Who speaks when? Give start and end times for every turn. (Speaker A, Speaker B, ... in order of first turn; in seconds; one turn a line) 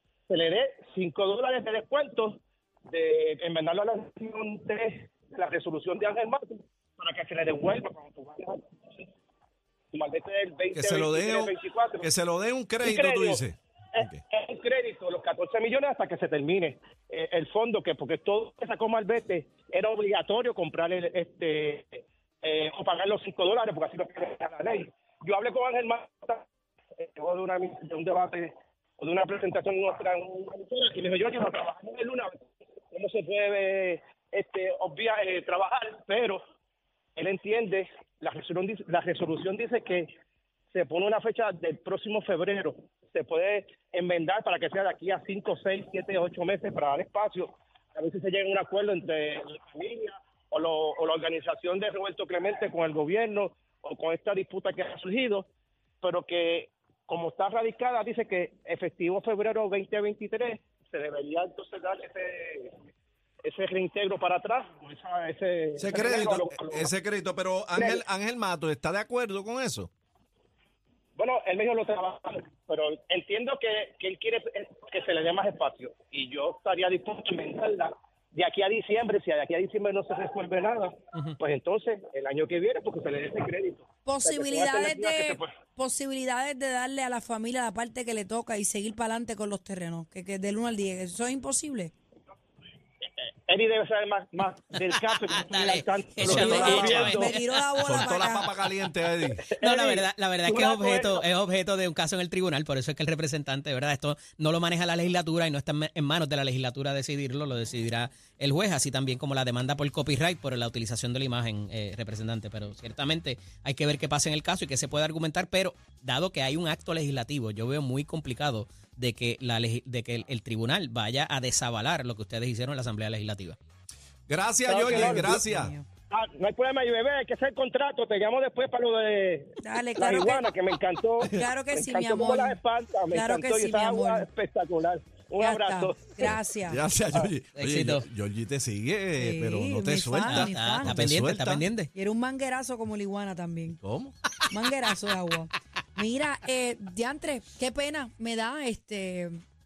Speaker A: 0.3-8.7
Speaker A: 9.9-12.1
Speaker B: 10.7-14.2
Speaker A: 12.8-13.4
Speaker A: 13.9-26.4
Speaker A: 27.0-36.4
Speaker A: 37.1-40.1
Speaker A: 40.7-55.5
Speaker A: 56.0-62.7
Speaker A: 63.4-66.9
Speaker B: 65.8-69.9
Speaker A: 67.7-68.0
Speaker A: 71.2-85.5
Speaker C: 84.0-91.9
Speaker A: 93.5-97.4
Speaker D: 94.8-98.1
Speaker B: 96.2-97.2
Speaker C: 96.2-98.6
Speaker B: 97.8-99.5
Speaker A: 99.2-101.3
Speaker D: 99.6-123.5
Speaker B: 124.3-125.7
Speaker A: 124.6-125.4
Speaker C: 124.8-125.8
Speaker A: 126.1-136.3
Speaker C: 129.6-130.5
Speaker C: 131.2-134.3
Speaker C: 135.4-136.8
Speaker B: 136.7-141.7
Speaker D: 137.5-138.1
Speaker C: 139.2-141.0
Speaker D: 140.2-141.9
Speaker C: 141.9-143.8
Speaker B: 143.8-144.2
Speaker C: 144.5-149.4